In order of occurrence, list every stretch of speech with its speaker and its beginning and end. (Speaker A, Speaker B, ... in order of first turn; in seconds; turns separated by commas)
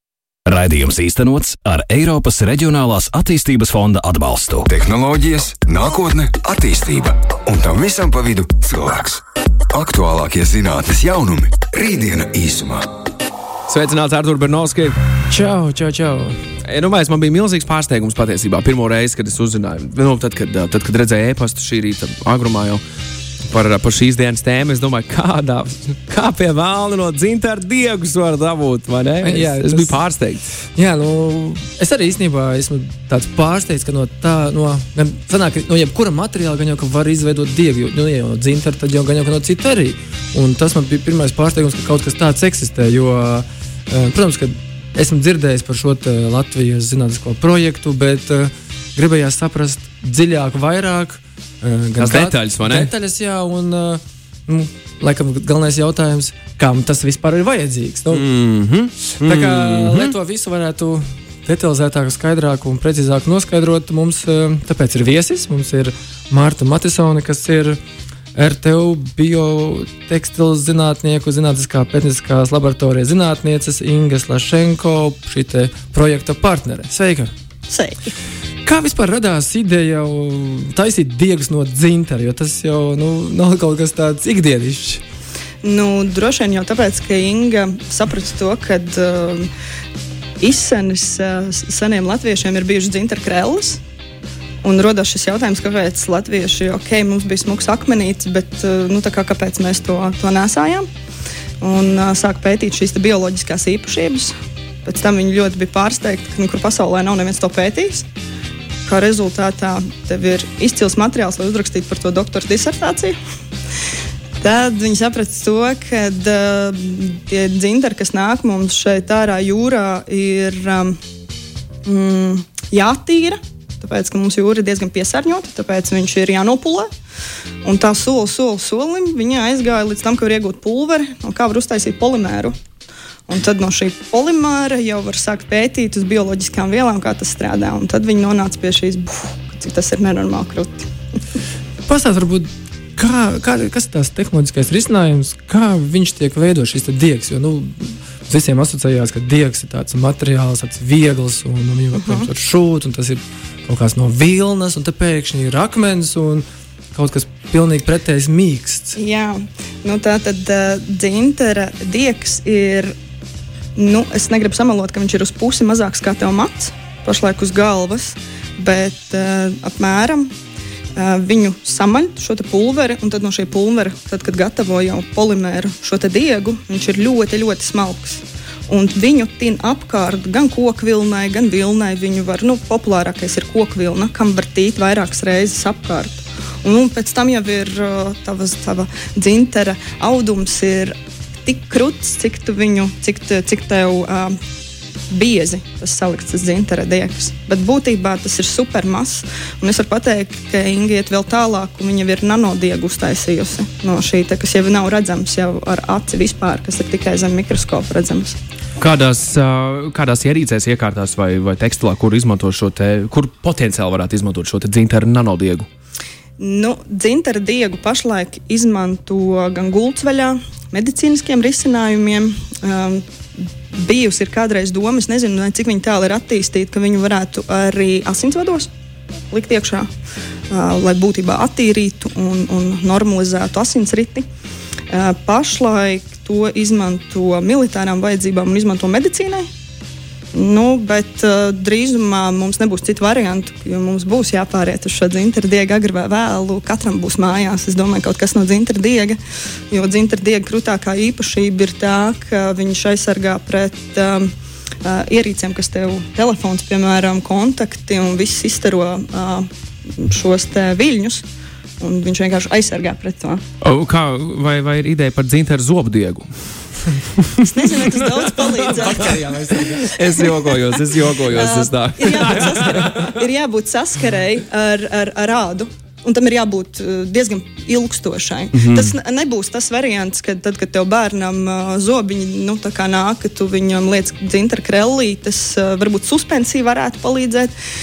Speaker A: 0.5-4.7, Speaker B: 4.7-12.9, Speaker C: 13.7-15.0, Speaker D: 15.3-16.4, Speaker C: 16.6-22.8, Speaker C: 23.4-30.4, Speaker D: 29.2-30.0, Speaker D: 30.8-58.3, Speaker C: 52.0-52.9, Speaker C: 58.1-60.1, Speaker D: 59.1-67.8, Speaker D: 68.3-77.3, Speaker E: 77.7-78.1, Speaker D: 78.7-85.0, Speaker E: 85.6-89.5, Speaker E: 90.4-93.8, Speaker E: 94.6-100.9, Speaker E: 101.6-104.3, Speaker E: 104.8-108.1, Speaker E: 108.9-113.2, Speaker E: 114.4-121.0, Speaker E: 121.9-126.9, Speaker E: 127.6-132.6, Speaker E: 133.3-140.9, Speaker D: 141.9-159.0, Speaker E: 151.9-152.3, Speaker E: 159.0-162.9, Speaker E: 163.8-170.3, Speaker E: 171.0-194.4, Speaker E: 195.1-208.4, Speaker C: 208.8-215.7, Speaker E: 216.4-228.7, Speaker E: 229.3-229.9, Speaker E: 230.5-234.3, Speaker E: 234.9-239.5, Speaker E: 240.3-249.2, Speaker E: 249.7-254.3, Speaker E: 254.8-261.2, Speaker E: 261.8-263.4, Speaker C: 263.6-266.5, Speaker E: 267.4-270.5, Speaker C: 268.6-269.2, Speaker D: 268.8-269.9, Speaker C: 269.7-273.1, Speaker E: 271.2-287.5, Speaker C: 278.5-278.9